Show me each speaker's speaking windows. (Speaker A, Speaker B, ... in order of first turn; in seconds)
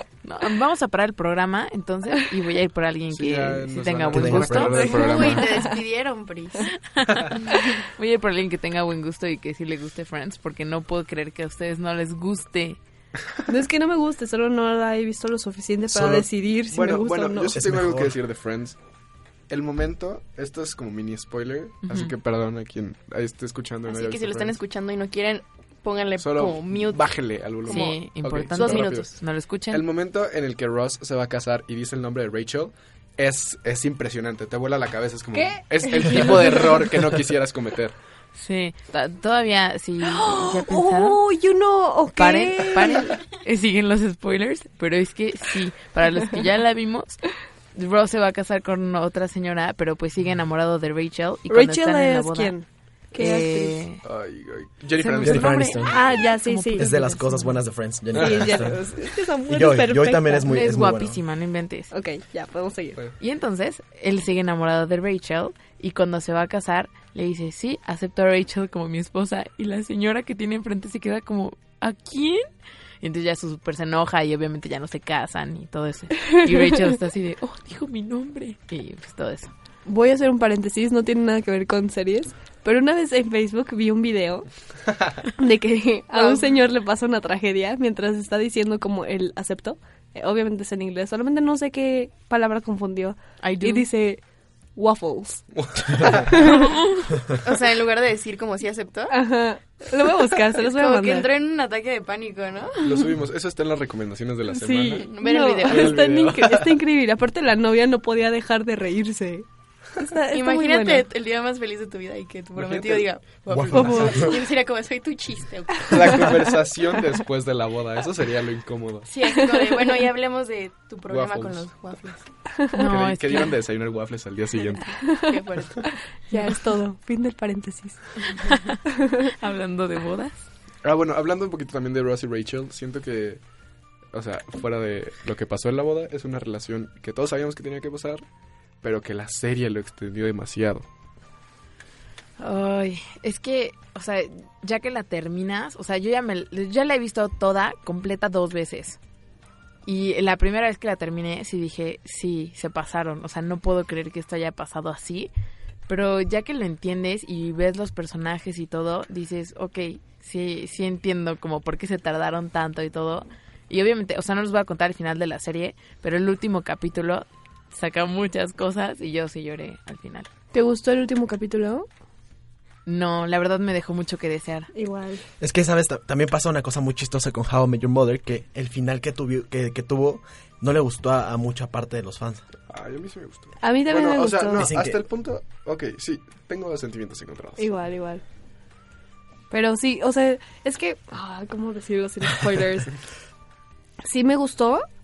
Speaker A: 0.2-5.3, 6.9-12.8, 21.9-22.1, 27.6-29.8, 38.4-41.2, 42.2-47.2, 47.7-52.5, 53.1-54.0, 55.0-57.6, 60.5-61.9, 63.2-72.5, 73.0-79.5, 93.4-93.9, 122.7-123.5, 128.4-128.8, 129.4-130.5, 142.4-149.0, 149.9-155.3, 155.9-170.3, 172.9-174.7
Speaker B: 3.1-5.5, 16.7-18.8, 19.5-24.6, 26.2-29.2, 29.7-37.9, 54.0-55.8, 58.2-58.5, 95.5-96.3, 102.8-105.1, 105.7-106.8, 112.6-114.3, 115.9-119.1, 121.1-121.7, 122.9-124.9, 130.8-133.4, 134.1-138.2, 138.8-140.9, 182.7-187.7
Speaker C: 4.1-4.8, 15.9-16.3, 17.5-18.2, 55.2-56.2, 56.8-58.8, 59.5-61.2, 113.5-114.4, 175.4-182.5, 184.6-185.0
Speaker D: 4.7-5.8, 13.5-17.6, 35.4-36.8, 40.0-43.3, 51.5-53.9, 55.9-56.9, 58.1-60.6, 61.9-63.0, 79.8-84.5, 85.3-94.2, 94.8-96.7, 99.1-101.3, 104.5-109.5, 110.0-111.1, 113.8-114.3, 126.3-128.8, 170.5-171.9, 174.7-175.2, 183.6-184.7, 187.6-188.2, 189.5-193.0, 194.0-194.9
Speaker E: 4.8-6.7, 23.9-28.0, 28.6-29.1, 97.4-99.2, 100.6-102.8, 105.0-106.0, 110.3-116.3, 119.1-122.2, 124.9-125.9